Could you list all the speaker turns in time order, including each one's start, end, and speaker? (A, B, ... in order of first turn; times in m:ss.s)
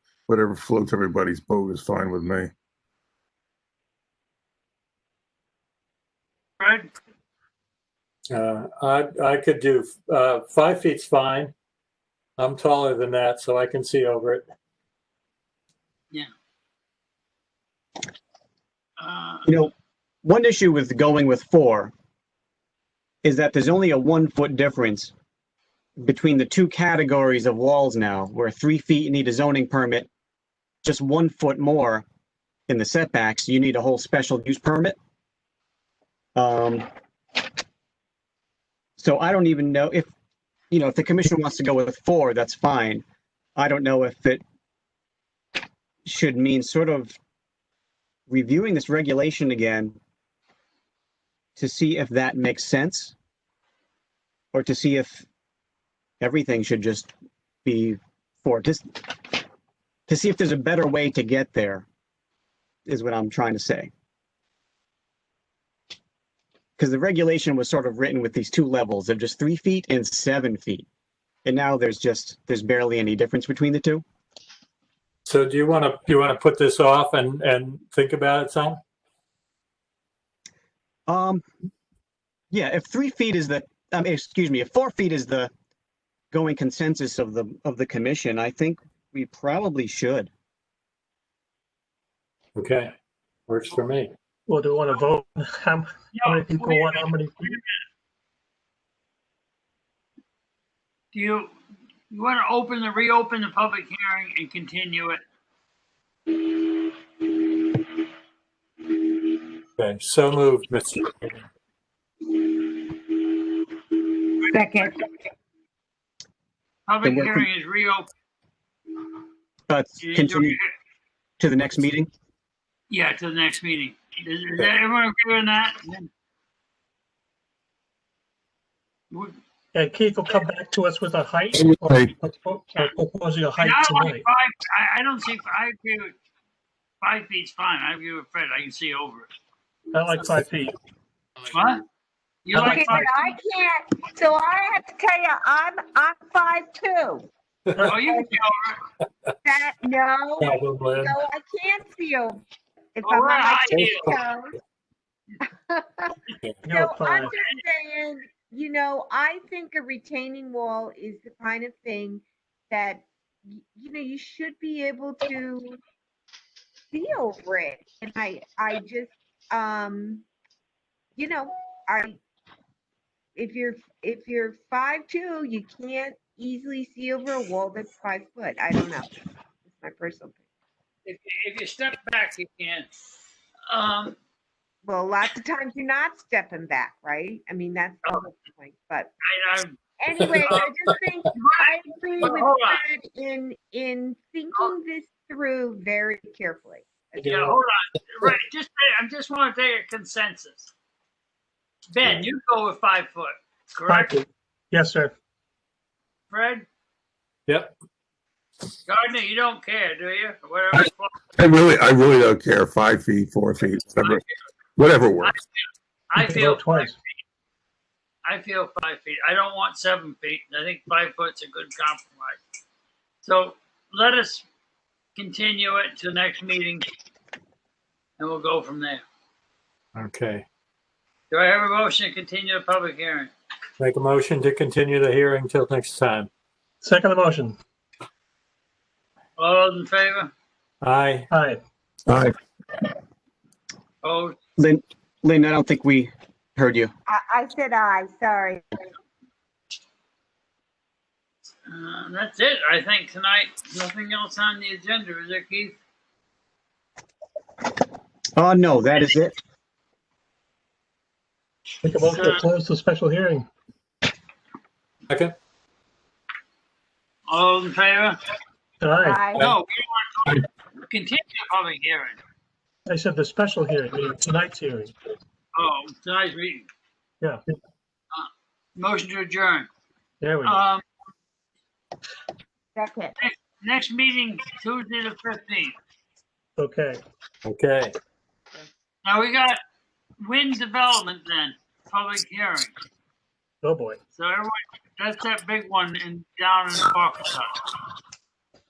0:00.3-0:02.5 A
0:06.6-0:06.9 B
0:08.3-0:11.5 C
0:12.4-0:14.4 C
0:19.0-0:19.6 B
0:19.4-0:19.7 D
0:20.2-0:21.9 D
0:23.2-0:25.1 D
0:26.0-0:30.1 D
0:30.8-0:32.0 D
0:32.7-0:35.0 D
0:36.4-0:36.9 D
0:39.0-0:40.1 D
0:40.7-0:43.0 D
0:43.6-0:44.4 D
0:46.0-0:47.2 D
0:48.3-0:50.0 D
0:51.6-0:53.2 D
0:54.5-0:55.3 D
0:56.2-0:57.1 D
0:57.6-0:59.2 D
1:00.1-1:01.9 D
1:02.9-1:03.9 D
1:06.8-1:10.9 D
1:11.4-1:14.0 D
1:15.3-1:18.8 C
1:21.1-1:21.4 D
1:22.5-1:25.5 D
1:26.3-1:30.3 D
1:32.6-1:32.9 C
1:33.5-1:34.1 C
1:34.5-1:37.6 E
1:36.2-1:37.7 B
1:41.1-1:41.5 B
1:42.1-1:45.2 B
1:49.8-1:51.4 C
1:54.5-1:55.0 F
1:56.9-1:58.1 B
1:57.0-1:57.5 D
1:59.7-2:00.6 D
2:00.0-2:00.7 B
2:01.4-2:02.1 D
2:02.9-2:06.1 B
2:09.7-2:14.2 E
2:11.5-2:12.1 A
2:13.6-2:16.2 B
2:17.0-2:19.3 B
2:19.9-2:20.7 E
2:21.5-2:21.8 B
2:22.4-2:23.4 B
2:22.5-2:23.1 E
2:22.6-2:27.3 F
2:27.8-2:28.8 B
2:28.0-2:28.3 F
2:29.4-2:32.4 F
2:30.4-2:31.1 C
2:33.0-2:34.5 F
2:33.1-2:34.1 B
2:33.7-2:34.2 C
2:35.7-2:36.1 F
2:36.6-2:37.3 E
2:36.7-2:45.8 F
2:46.9-2:50.3 F
2:51.2-2:52.2 F
2:53.4-3:00.4 F
3:01.1-3:02.9 B
3:03.7-3:04.2 B
3:04.8-3:09.1 F
3:09.2-3:09.8 B
3:10.0-3:17.2 F
3:11.4-3:12.8 B
3:17.2-3:17.6 C
3:17.2-3:20.7 B
3:21.9-3:24.1 B
3:23.9-3:25.1 E
3:26.3-3:26.7 B
3:27.5-3:27.7 C
3:28.9-3:31.2 B
3:31.4-3:34.2 A
3:34.0-3:34.4 B
3:34.8-3:35.4 A
3:35.2-3:35.6 B
3:36.1-3:37.0 B
3:36.2-3:36.9 E
3:38.2-3:42.4 B
3:43.2-3:44.4 B
3:45.2-3:46.9 B
3:48.2-3:49.0 B
3:50.0-3:50.5 C
3:51.3-3:53.3 B
3:53.8-3:56.3 C
3:56.8-3:57.6 E
3:59.4-4:00.3 B
4:00.8-4:01.3 C
4:01.3-4:01.6 E
4:02.1-4:02.4 A
4:04.0-4:04.4 B
4:04.6-4:06.9 D
4:07.1-4:08.6 F
4:11.7-4:15.8 B
4:18.4-4:19.3 D
4:21.8-4:23.5 E
4:22.0-4:22.5 B
4:25.1-4:25.3 C
4:27.3-4:28.2 B
4:28.8-4:29.2 E
4:29.0-4:29.4 F
4:29.4-4:32.2 B
4:32.9-4:34.9 E
4:35.6-4:36.7 B
4:38.1-4:39.7 B
4:40.2-4:40.6 E
4:40.4-4:40.8 B
4:42.8-4:43.2 F
4:43.2-4:45.8 B
4:46.6-4:47.0 E
4:47.4-4:48.0 C
4:49.0-4:49.6 B
4:50.2-4:52.8 B
4:53.6-4:54.0 E
4:54.2-4:57.6 B